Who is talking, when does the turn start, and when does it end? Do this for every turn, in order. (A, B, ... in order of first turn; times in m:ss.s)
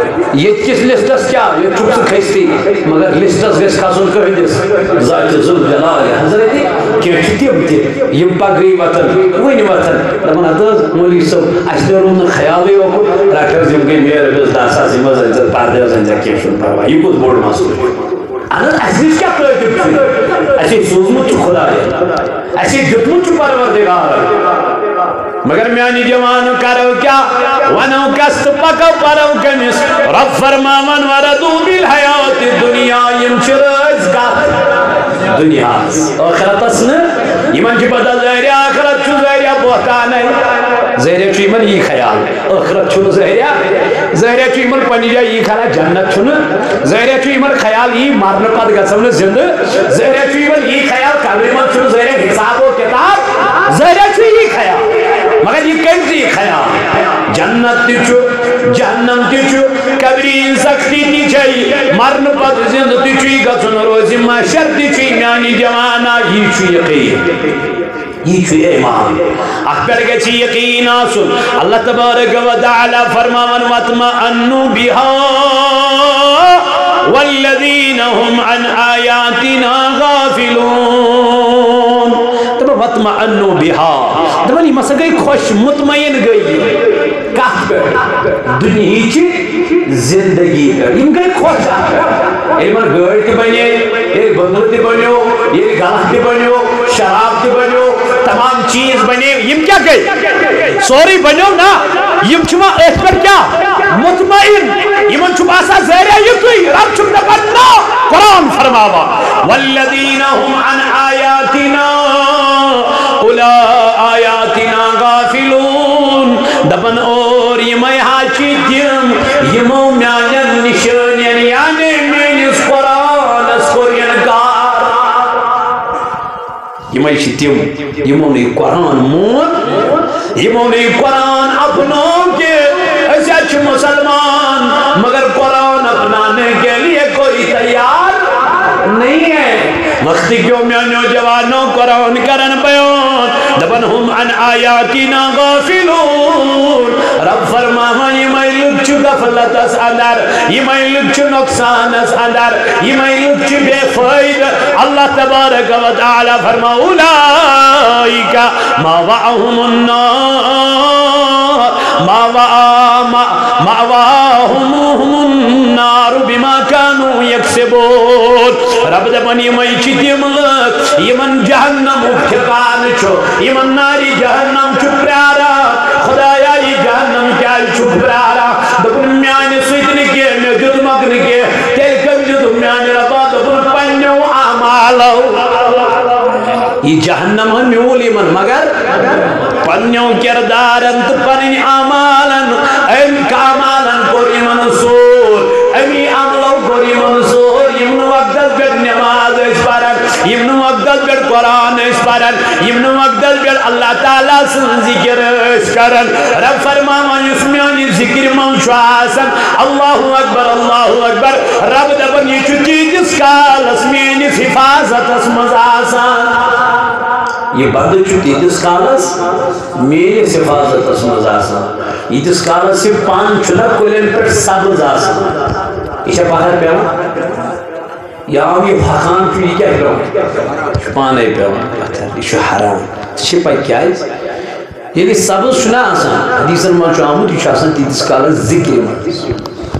0:00.3-0:24.5 A
0:25.4-0:34.6 A
0:35.2-0:54.9 A
0:55.4-1:07.5 A
1:08.2-2:05.1 A
2:06.9-2:09.8 A
2:10.4-3:05.8 A
3:06.8-3:08.8 A
3:09.6-3:36.5 A
3:37.5-3:45.5 A
3:46.0-3:46.9 A
3:48.3-3:54.1 A
3:54.9-3:59.4 A